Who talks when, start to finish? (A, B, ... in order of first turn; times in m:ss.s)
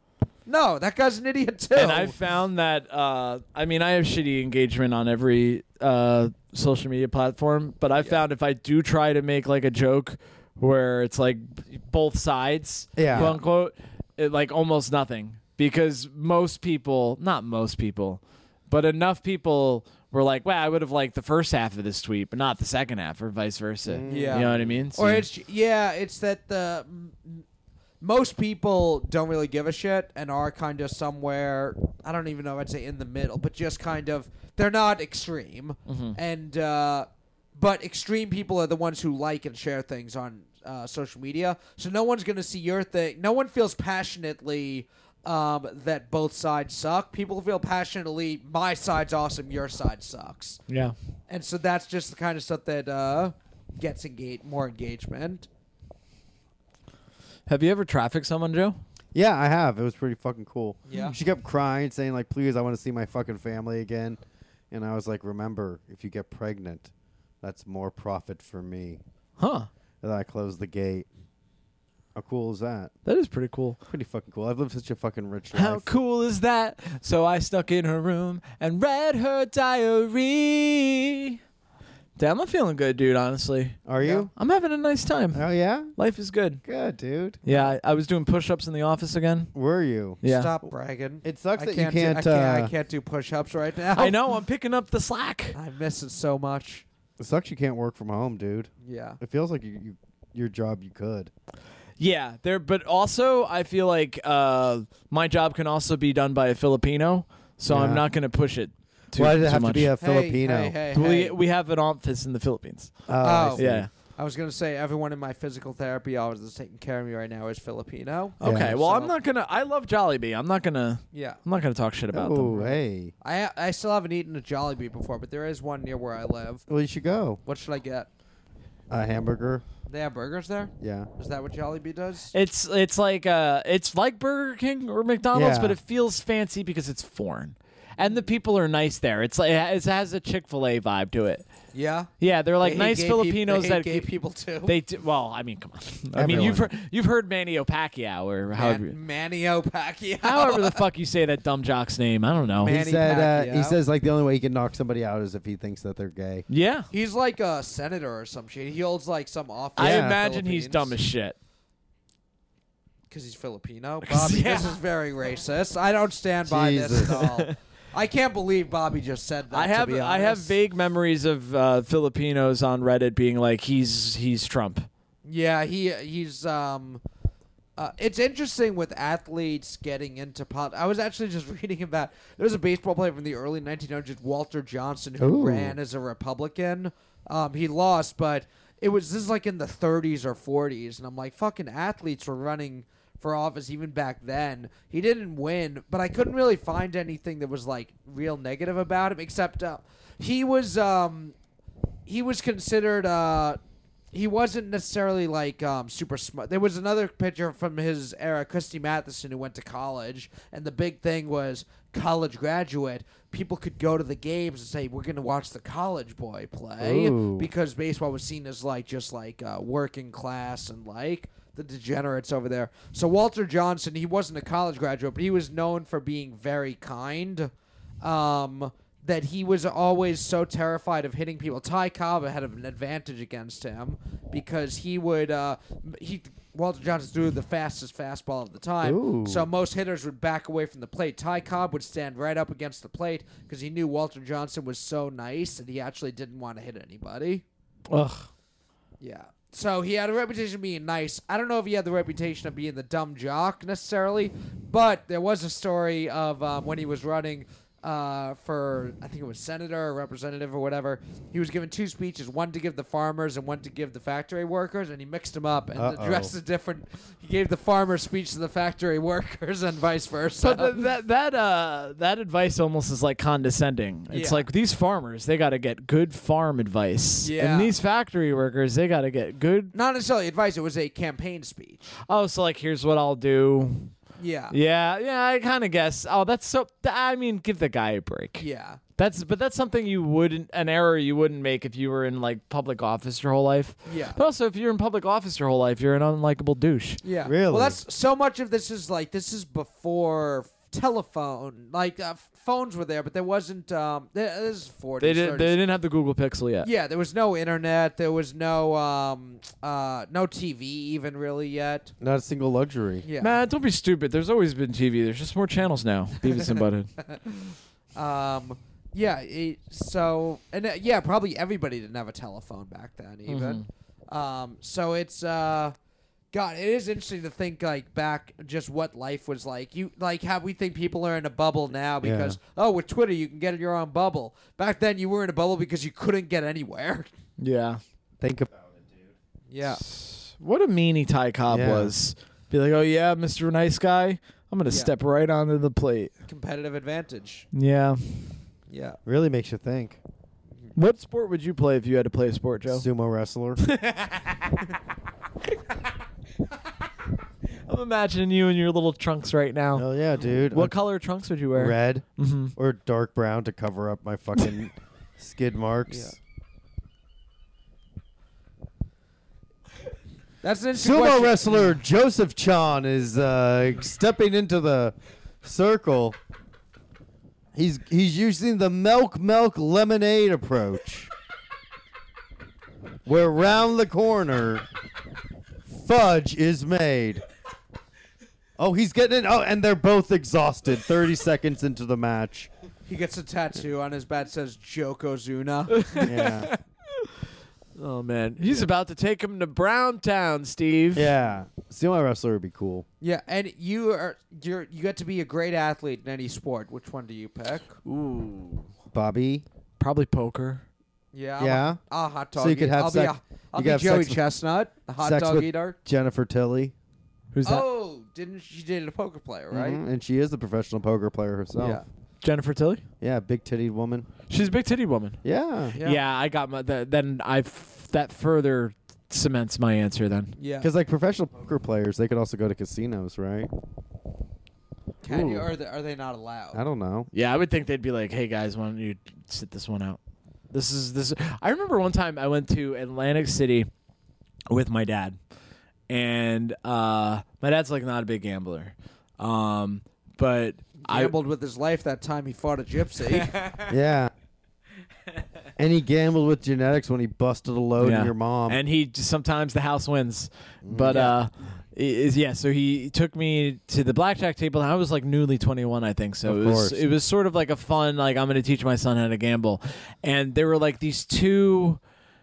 0:00.5-0:02.2 A
0:01.8-0:25.3 B
0:13.0-0:13.4 C
0:13.1-0:13.4 A
0:23.8-0:24.9 C
0:24.1-0:27.4 A
0:28.0-0:50.6 A
0:35.9-0:36.2 B
0:50.7-0:51.0 B
0:51.3-0:55.5 A
0:57.5-0:58.8 B
0:59.1-1:04.2 C
1:00.9-1:01.2 A
1:04.7-1:06.9 C
1:07.4-1:09.0 C
1:09.4-1:09.7 B
1:10.0-1:11.1 C
1:12.2-1:12.9 C
1:13.1-1:13.8 B
1:13.9-1:15.9 C
1:15.5-1:21.4 B
1:22.2-1:23.8 B
1:23.9-1:24.3 C
1:24.0-1:24.3 A
1:24.3-1:26.6 B
1:25.3-1:25.9 C
1:26.6-1:27.4 C
1:27.4-1:29.5 B
1:29.5-1:30.2 C
1:30.2-1:30.5 B
1:30.2-1:34.2 A
1:31.2-1:32.7 C
1:34.0-1:35.6 B
1:35.5-1:36.8 A
1:37.2-1:38.7 C
1:38.8-1:39.2 A
1:39.2-1:41.3 C
1:42.0-1:49.9 B
1:47.7-1:48.0 C
1:49.2-1:50.8 C
1:50.0-1:51.4 A
1:50.9-1:53.9 B
1:53.1-1:53.9 C
1:53.2-1:53.6 A
1:54.2-1:59.1 A
1:58.4-2:02.7 B
1:58.4-1:58.8 C
2:01.1-2:01.4 A
2:02.1-2:03.1 C
2:03.2-2:06.6 A
2:06.7-2:07.4 C
2:07.4-2:08.1 A
2:08.9-2:09.6 C
2:09.9-2:12.3 A
2:10.8-2:11.1 C
2:12.3-2:21.4 B
2:15.3-2:15.8 C
2:18.0-2:18.3 A
2:21.7-2:22.1 A
2:22.2-2:24.1 B
2:22.6-2:24.8 A
2:24.6-2:29.0 B
2:26.1-2:26.7 C
2:26.2-2:26.6 A
2:28.5-2:30.8 A
2:30.2-2:32.7 B
2:32.6-2:36.4 C
2:32.6-2:33.8 A
2:36.5-2:36.9 B
2:36.9-2:40.9 A
2:39.8-2:40.2 C
2:39.8-2:41.4 B
2:43.1-2:50.6 A
2:44.0-2:44.8 B
2:46.5-2:47.3 C
2:47.2-2:47.5 B
2:49.5-2:54.9 B
2:55.3-2:57.0 A
2:57.8-3:21.4 A
3:05.2-3:05.8 C
3:22.1-3:23.6 A
3:24.1-3:47.5 A
3:36.8-3:37.5 C
3:48.0-4:07.4 A
3:58.8-3:59.5 C
4:07.9-4:08.3 B
4:09.0-4:30.8 A
4:25.8-4:26.3 C
4:30.4-4:39.7 B
4:34.1-4:34.5 A
4:37.2-4:37.7 A
4:39.7-4:41.9 A
4:42.1-4:43.9 B
4:44.2-4:44.6 A
4:44.5-4:48.4 B
4:48.4-4:48.8 A
4:49.0-4:57.0 B
4:53.9-4:54.2 A
4:57.0-5:05.6 A
4:57.3-4:57.8 C
5:05.0-5:06.7 B
5:06.6-5:11.9 A
5:12.0-5:13.1 C
5:13.0-5:13.4 A
5:13.2-5:16.9 B
5:16.3-5:16.6 A
5:18.0-5:25.8 A
5:23.3-5:23.7 B
5:26.3-5:37.1 A
5:32.0-5:32.4 C
5:37.4-5:37.8 B
5:38.2-5:39.1 C
5:39.5-5:39.8 A
5:39.7-5:46.1 B
5:41.5-5:41.9 C
5:44.7-5:44.9 A
5:46.3-5:47.5 A
5:47.5-5:48.3 B
5:48.7-5:49.0 A
5:49.1-5:50.0 C
5:50.8-5:52.8 B
5:52.7-5:53.6 C
5:53.6-5:54.5 B
5:57.6-6:02.5 B
5:59.8-6:00.8 C
6:01.5-6:06.2 C
6:05.9-6:06.1 A
6:10.4-6:11.8 A
6:10.8-6:16.2 C
6:17.6-6:21.1 C
6:23.0-6:24.6 C
6:25.7-6:27.2 C
6:28.6-6:32.5 C
6:32.9-6:36.3 A
6:35.8-6:37.2 B
6:36.0-6:36.5 C
6:37.8-6:41.1 B
6:40.9-6:42.8 C
6:43.0-6:47.7 A
6:47.9-6:48.7 B
6:48.9-6:49.4 C
6:49.8-6:50.6 B
6:51.1-6:55.8 A
6:51.4-6:51.8 C
6:52.4-6:54.2 C
6:55.0-6:56.7 C
6:57.3-6:57.6 B
6:57.4-6:59.8 A
6:59.5-7:01.8 C
7:01.6-7:01.8 A
7:02.2-7:02.8 B
7:03.0-7:04.1 C
7:04.3-7:05.2 B
7:05.2-7:05.8 C
7:05.7-7:06.0 A
7:05.8-7:10.4 B
7:10.4-7:10.7 A
7:10.6-7:13.5 C
7:15.0-7:16.6 A
7:15.1-7:15.5 C
7:16.5-7:17.1 C
7:17.1-7:20.0 B
7:20.5-7:23.7 B
7:24.5-7:25.2 B
7:25.9-7:31.2 B
7:30.8-7:33.5 A
7:33.7-7:34.1 C
7:35.6-7:38.6 C
7:37.8-7:51.8 B
7:40.6-7:41.2 C
7:40.9-7:41.2 A
7:46.2-7:46.8 C